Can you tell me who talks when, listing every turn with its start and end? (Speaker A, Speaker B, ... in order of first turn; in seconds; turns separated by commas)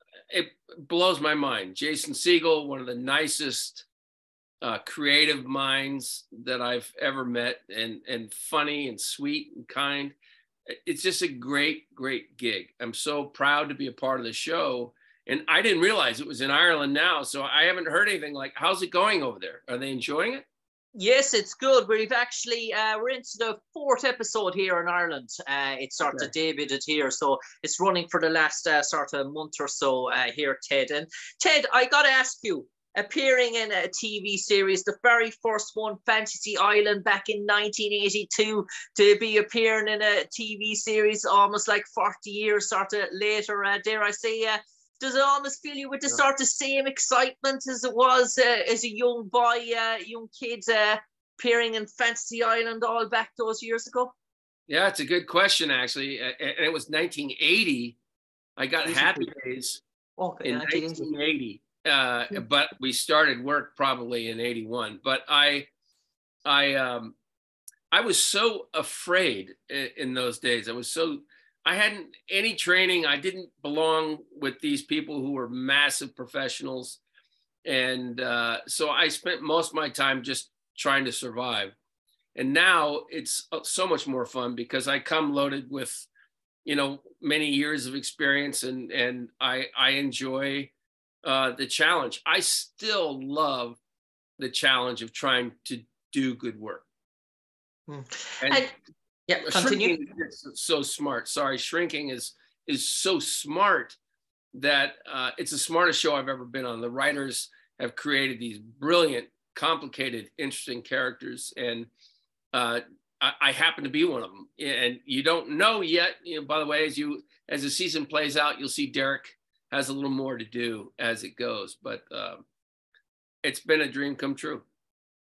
Speaker A: 0.3-3.9, Speaker A: 4.6-10.2, Speaker A: 10.8-20.4, Speaker B: 20.9-54.1, Speaker A: 54.7-58.0, Speaker A: 58.6-59.8, Speaker B: 58.8-59.2, Speaker B: 60.2-61.1, Speaker A: 60.4-65.7, Speaker A: 66.5-67.1, Speaker A: 67.9-77.0, Speaker A: 77.7-81.7, Speaker A: 82.3-86.1, Speaker A: 86.6-90.7, Speaker A: 91.2-93.8, Speaker A: 94.4-96.8, Speaker B: 97.9-98.7, Speaker A: 98.4-98.7, Speaker B: 99.3-100.0, Speaker A: 99.4-104.0, Speaker A: 104.5-111.9, Speaker A: 112.5-122.4, Speaker A: 123.4-124.6